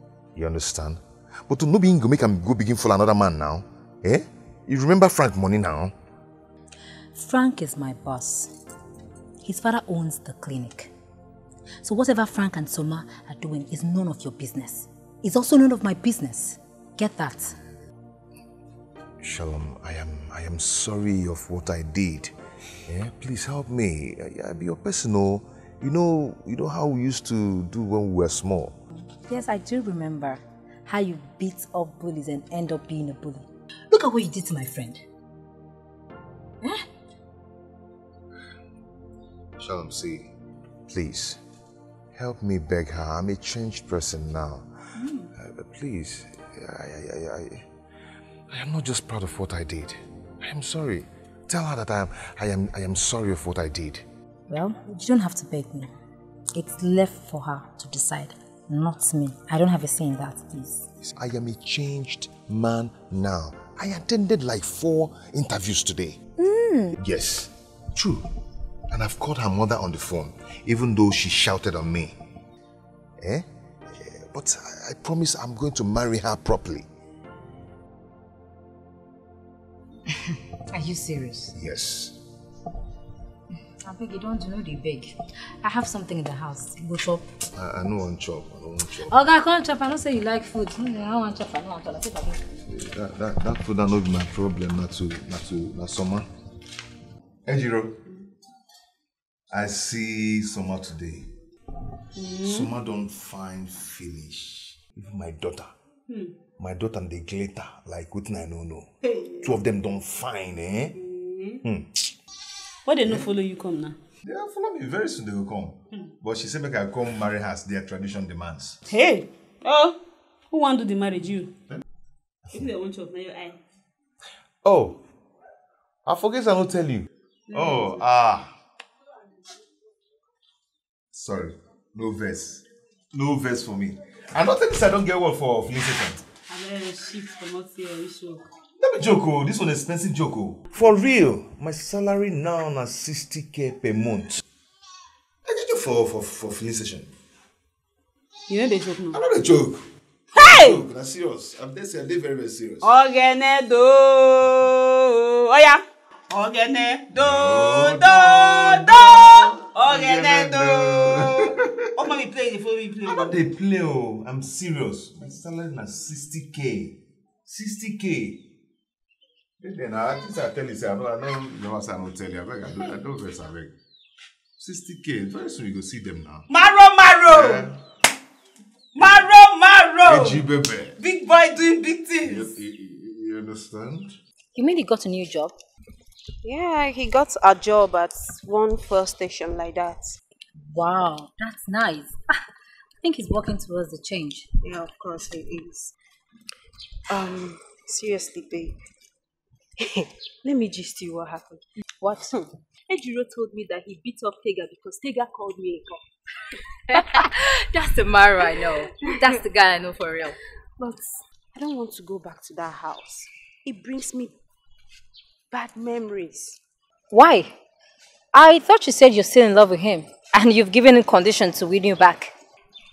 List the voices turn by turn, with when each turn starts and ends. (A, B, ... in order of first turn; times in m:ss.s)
0:00.3-0:05.9 A
0:07.1-0:08.5 B
0:09.4-0:10.9 B
0:11.8-0:17.5 B
0:19.2-0:22.3 A
0:22.9-0:28.8 A
0:28.9-0:35.0 B
0:36.6-0:36.9 B
0:39.6-0:40.3 A
0:40.9-0:41.4 A
0:42.1-0:44.7 A
0:45.3-0:47.7 A
0:48.5-0:54.0 A
0:54.5-0:55.9 B
0:56.5-1:00.8 B
1:01.0-1:06.2 A
1:06.4-1:07.0 B
1:07.0-1:08.3 A
1:08.9-1:12.2 A
1:13.2-1:16.8 A
1:20.1-1:21.5 B
1:21.5-1:22.2 A
1:23.8-1:27.2 B
1:27.5-1:29.1 A
1:29.1-1:32.4 B
1:32.6-1:36.3 A
1:37.4-1:38.0 A
1:39.5-1:41.3 A
1:42.3-1:45.7 A
1:46.6-1:48.9 A
1:49.4-1:51.0 A
1:51.1-1:51.6 C
1:51.6-1:52.1 A
1:52.8-1:54.0 D
1:54.2-1:58.8 A
1:58.9-2:00.0 D
2:00.5-2:01.5 D
2:02.5-2:03.6 D
2:04.6-2:05.0 A
2:06.0-2:08.5 A
2:07.5-2:07.9 D
2:11.1-2:16.2 A
2:16.5-2:18.4 D
2:18.8-2:24.4 A
2:25.4-2:27.1 A
2:28.5-2:29.2 D
2:29.1-2:32.9 A
2:30.3-2:30.8 D
2:32.8-2:43.4 D
2:37.2-2:41.9 A
2:43.0-2:48.4 A
2:49.6-2:53.7 A
2:54.6-2:56.5 A
2:56.5-2:57.6 C
2:57.3-2:57.8 A
2:59.0-3:00.4 C
3:00.0-3:01.0 A
3:01.0-3:02.5 C
3:02.2-3:04.1 A
3:04.5-3:05.6 B
3:06.4-3:10.1 C
3:10.7-3:12.2 B
3:13.0-3:14.5 B
3:14.6-3:15.9 C
3:17.1-3:18.8 C
3:19.8-3:21.6 C
3:22.0-3:22.4 B
3:22.2-3:26.0 C
3:26.9-3:27.2 C
3:26.9-3:30.4 B
3:30.8-3:34.3 C
3:35.5-3:36.6 C
3:37.1-3:37.5 B
3:38.3-3:42.3 B